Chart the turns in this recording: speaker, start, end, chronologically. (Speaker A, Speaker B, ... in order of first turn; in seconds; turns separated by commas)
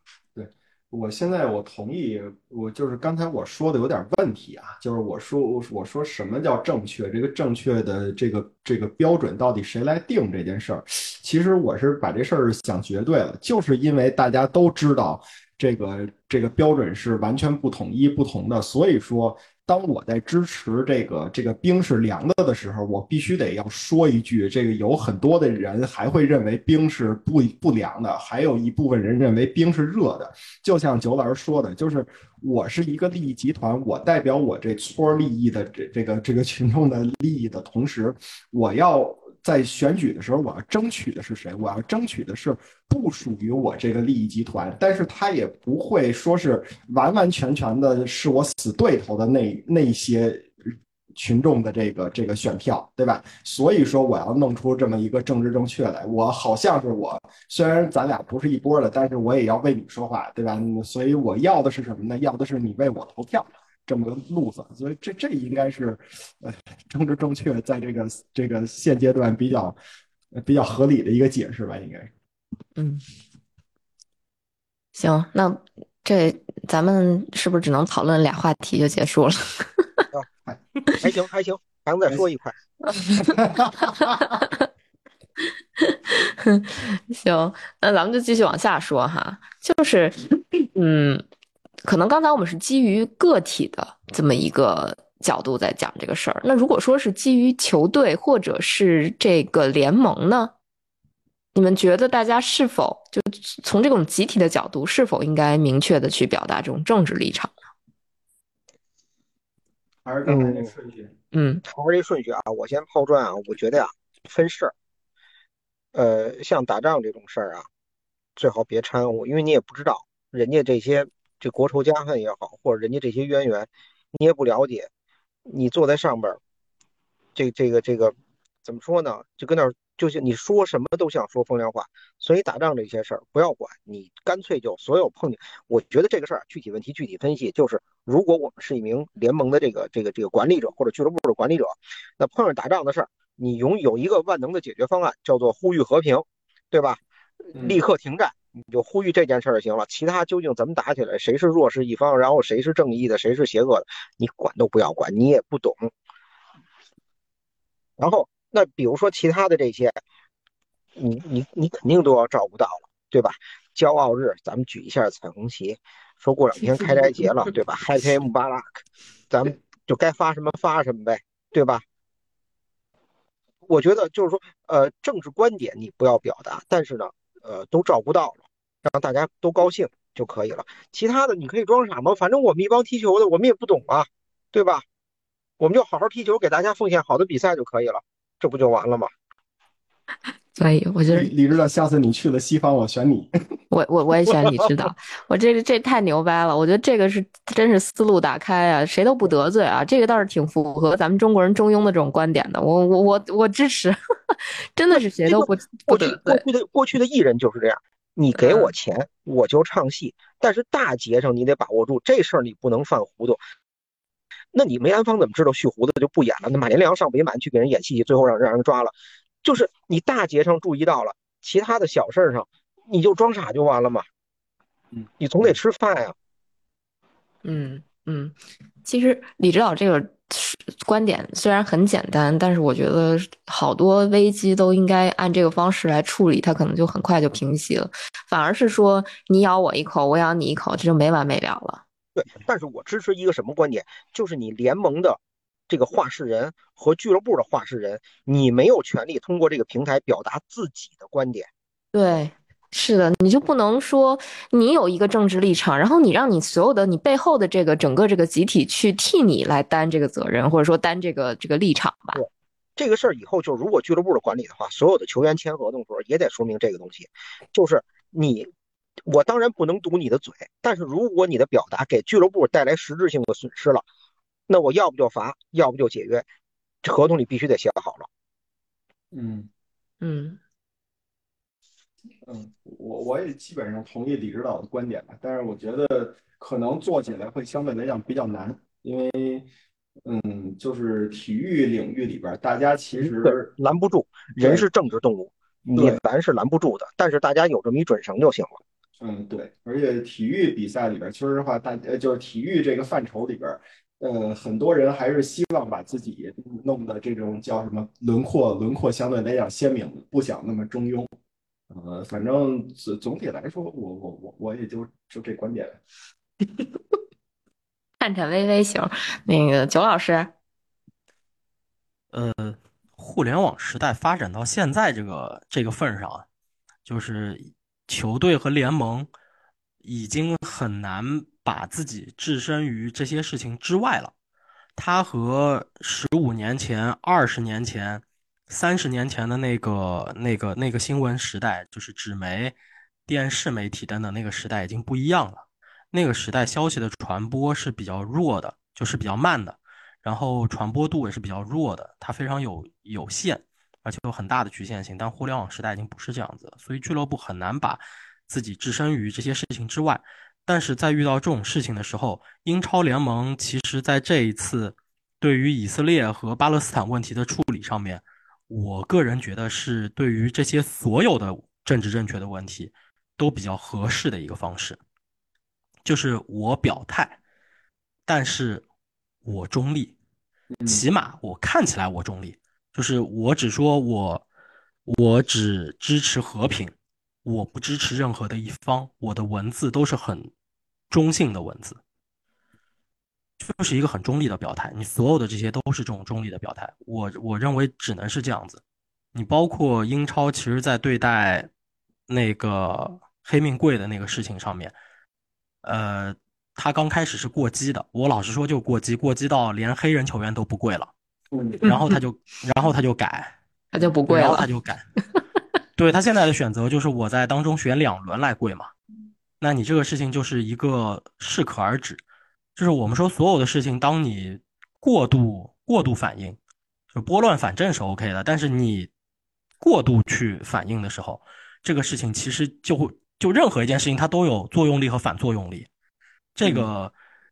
Speaker A: 0.3-69.8, Speaker A: 70.3-72.1, Speaker B: 72.8-73.0, Speaker B: 75.0-80.0, Speaker C: 81.0-82.5, Speaker B: 83.0-83.4, Speaker A: 83.2-84.3, Speaker B: 83.9-84.6, Speaker B: 85.8-91.2, Speaker B: 91.8-100.5, Speaker B: 101.5-107.5, Speaker A: 110.0-111.1, Speaker C: 110.3-110.7, Speaker B: 111.3-111.6, Speaker C: 111.7-114.7, Speaker C: 115.9-117.7, Speaker C: 118.4-124.9, Speaker C: 125.5-126.4, Speaker C: 127.4-155.9, Speaker A: 147.6-147.8, Speaker C: 158.0-160.0, Speaker C: 161.0-171.8, Speaker C: 173.7-184.8, Speaker C: 185.6-189.1, Speaker B: 190.6-191.3, Speaker A: 191.1-193.3, Speaker B: 193.7-206.4, Speaker C: 205.2-213.4, Speaker B: 208.3-208.7, Speaker C: 214.5-224.1, Speaker C: 225.2-226.2, Speaker B: 227.4-241.8, Speaker C: 242.2-251.5, Speaker B: 251.9-262.2, Speaker C: 262.1-268.5, Speaker C: 269.1-273.9, Speaker C: 274.5-276.3, Speaker C: 276.8-278.1, Speaker A: 279.1-279.5, Speaker B: 280.0-280.4, Speaker A: 282.2-289.5, Speaker A: 290.1-293.5, Speaker C: 293.0-298.6, Speaker A: 294.4-294.7, Speaker A: 295.7-296.0, Speaker A: 299.0-311.1, Speaker A: 311.7-315.8, Speaker B: 318.0-320.3, Speaker D: 322.1-326.3, Speaker D: 326.9-329.1, Speaker D: 329.8-334.1, Speaker D: 334.8-342.6, Speaker D: 343.1-374.8, Speaker D: 375.9-377.2, Speaker D: 378.1-378.6, Speaker D: 379.2-379.9, Speaker A: 380.6-380.9, Speaker D: 380.7-384.2, Speaker D: 384.9-386.7, Speaker D: 387.2-390.3, Speaker D: 390.9-391.8, Speaker D: 393.4-398.6, Speaker D: 399.1-401.5, Speaker D: 402.1-404.8, Speaker D: 405.6-410.9, Speaker A: 411.3-411.6, Speaker D: 411.6-413.4, Speaker B: 413.7-414.5, Speaker D: 414.1-414.9, Speaker D: 415.8-418.7, Speaker D: 419.4-422.0, Speaker D: 422.6-426.4, Speaker D: 426.9-428.9, Speaker D: 429.6-435.7, Speaker D: 436.4-436.9, Speaker A: 436.4-436.7